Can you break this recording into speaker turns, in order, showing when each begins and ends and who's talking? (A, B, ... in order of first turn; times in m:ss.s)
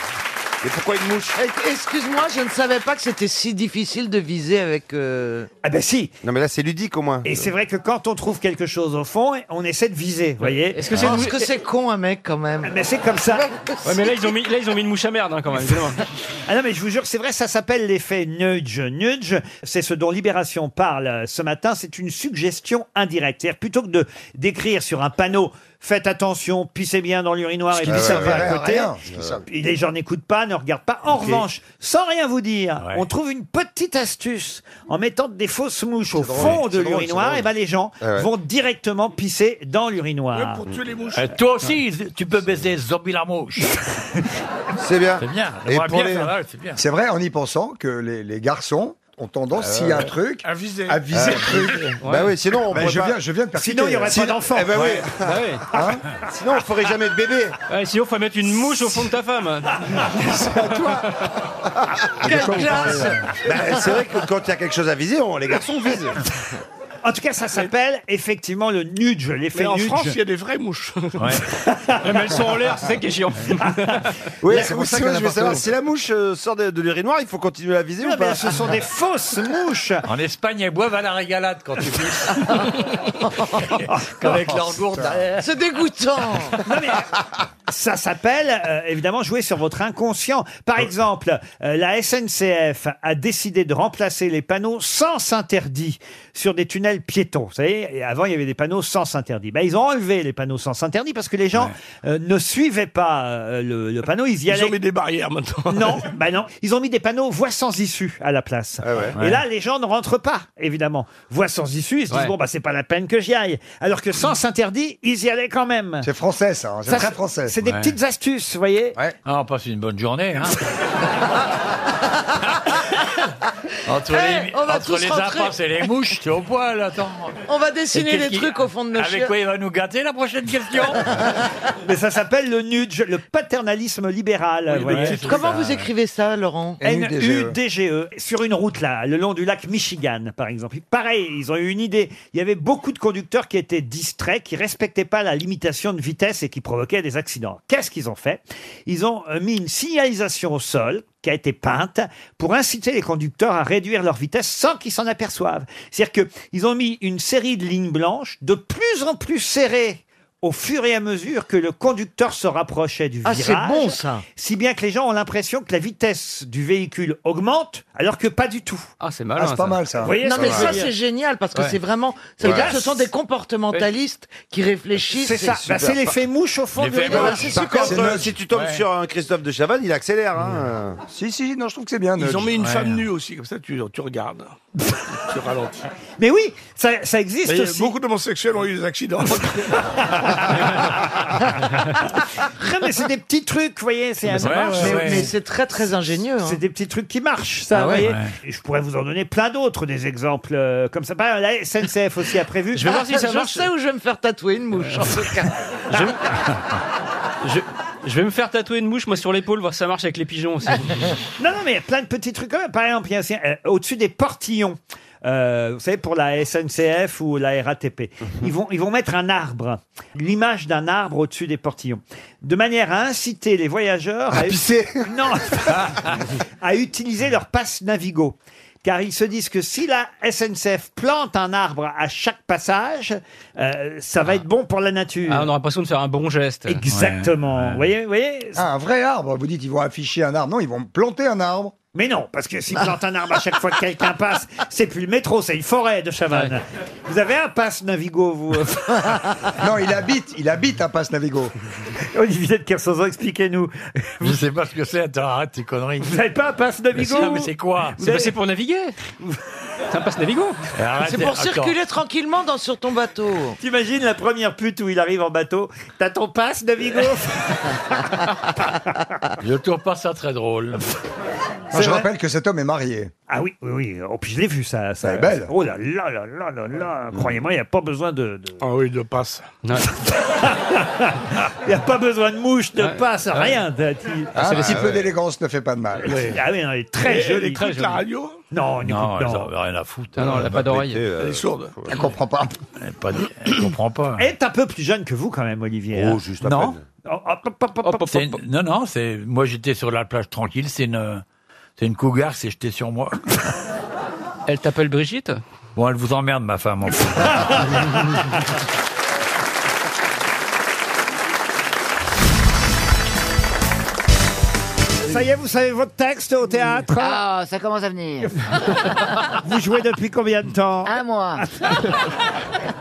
0:00.6-0:01.3 A
0:01.3-0:05.5 B
0:05.6-0:06.1 C
0:06.2-0:07.5 A
0:07.2-0:10.9 C
0:10.4-0:11.5 D
0:10.9-0:12.7 B
0:12.6-0:13.4 C
0:13.8-0:16.0 D
0:16.5-0:28.9 C
0:27.8-0:29.4 E
0:29.4-0:40.6 C
0:36.1-0:37.4 E
0:36.9-0:37.3 A
0:38.0-0:38.3 E
0:40.4-0:41.4 F
0:41.1-0:43.7 G
0:44.8-0:46.3 A
0:45.2-0:46.8 G
0:46.8-0:52.0 E
0:49.6-0:50.0 A
0:50.5-0:50.9 F
0:51.9-0:52.4 D
0:52.0-0:53.2 A
0:52.7-0:55.1 E
0:53.6-0:54.9 C
0:54.1-0:55.0 A
0:54.8-0:55.6 D
0:55.7-0:56.0 E
0:56.3-0:57.5 A
0:57.7-1:01.0 D
1:02.2-1:03.2 E
1:02.2-1:03.2 B
1:03.4-1:06.1 A
1:07.0-1:10.2 C
1:09.5-1:11.4 F
1:11.8-1:12.1 C
1:12.0-1:14.1 D
1:14.4-1:18.6 A
1:14.5-1:15.6 E
1:18.0-1:20.0 C
1:20.1-1:22.6 G
1:23.8-1:25.4 G
1:25.4-1:26.6 B
1:26.6-1:27.1 C
1:27.7-1:44.8 C
1:44.5-1:46.1 F
1:45.7-1:56.1 C
1:48.8-1:49.1 A
1:56.0-1:57.5 E
1:56.9-1:59.0 C
1:57.6-1:57.9 G
1:59.2-2:00.6 G
2:03.9-2:07.3 G
2:04.1-2:05.5 B
2:07.5-2:09.3 B
2:07.9-2:11.1 G
2:11.8-2:15.5 C
2:14.8-2:15.8 G
2:15.0-2:16.8 B
2:16.8-2:17.6 E
2:16.8-2:48.9 C
2:43.2-2:44.2 B
2:49.0-2:49.9 D
2:49.4-2:50.8 E
2:50.0-2:50.9 C
2:50.2-2:56.1 B
2:52.4-2:53.0 C
2:52.4-2:52.7 E
2:55.1-2:58.1 C
2:56.8-2:58.8 G
2:57.1-2:58.0 B
2:57.6-3:01.0 A
2:57.8-2:58.4 E
3:01.0-3:02.5 E
3:02.2-3:04.6 F
3:02.5-3:03.0 G
3:05.3-3:05.8 F
3:06.2-3:08.0 C
3:07.4-3:09.8 F
3:12.4-3:15.2 C
3:14.3-3:15.3 G
3:14.8-3:16.6 B
3:16.4-3:22.9 C
3:17.8-3:18.3 G
3:22.8-3:23.7 D
3:22.8-3:25.5 B
3:25.9-3:26.2 D
3:27.4-3:31.0 D
3:31.4-3:55.5 C
3:44.3-3:45.1 E
3:55.3-3:56.8 D
3:56.7-3:58.6 C
3:56.8-3:57.9 G
3:58.5-4:01.8 E
4:02.0-4:09.2 C
4:09.6-4:11.5 E
4:12.1-4:14.4 C
4:14.2-4:16.2 G
4:16.0-4:18.3 C
4:17.0-4:18.0 G
4:18.0-4:19.0 D
4:19.9-4:20.6 D
4:20.8-4:21.8 G
4:21.0-4:23.6 B
4:23.6-4:27.8 C
4:29.4-4:30.8 G
4:31.7-4:33.1 E
4:31.7-4:32.0 C
4:33.3-4:38.6 C
4:35.0-4:35.5 E
4:38.6-4:39.6 F
4:40.0-4:44.9 C
4:42.8-4:43.5 D
4:44.3-4:46.2 E
4:44.4-4:45.0 D
4:46.2-4:48.0 C
4:47.0-4:48.4 F
4:48.5-4:49.5 C
4:48.8-4:50.9 G
4:50.2-4:51.0 D
4:50.9-4:51.4 A
4:51.1-4:51.8 F
4:51.8-4:52.5 E
4:52.8-4:54.3 G
4:54.2-4:56.2 C
4:56.0-4:56.8 A
4:56.4-4:56.8 G
4:57.0-4:58.3 C
4:57.8-5:01.2 G
5:01.8-5:03.1 G
5:04.5-5:05.4 D
5:05.8-5:07.4 G
5:15.0-5:17.2 C
5:17.0-5:18.3 H
5:19.4-5:21.7 C
5:20.8-5:21.4 H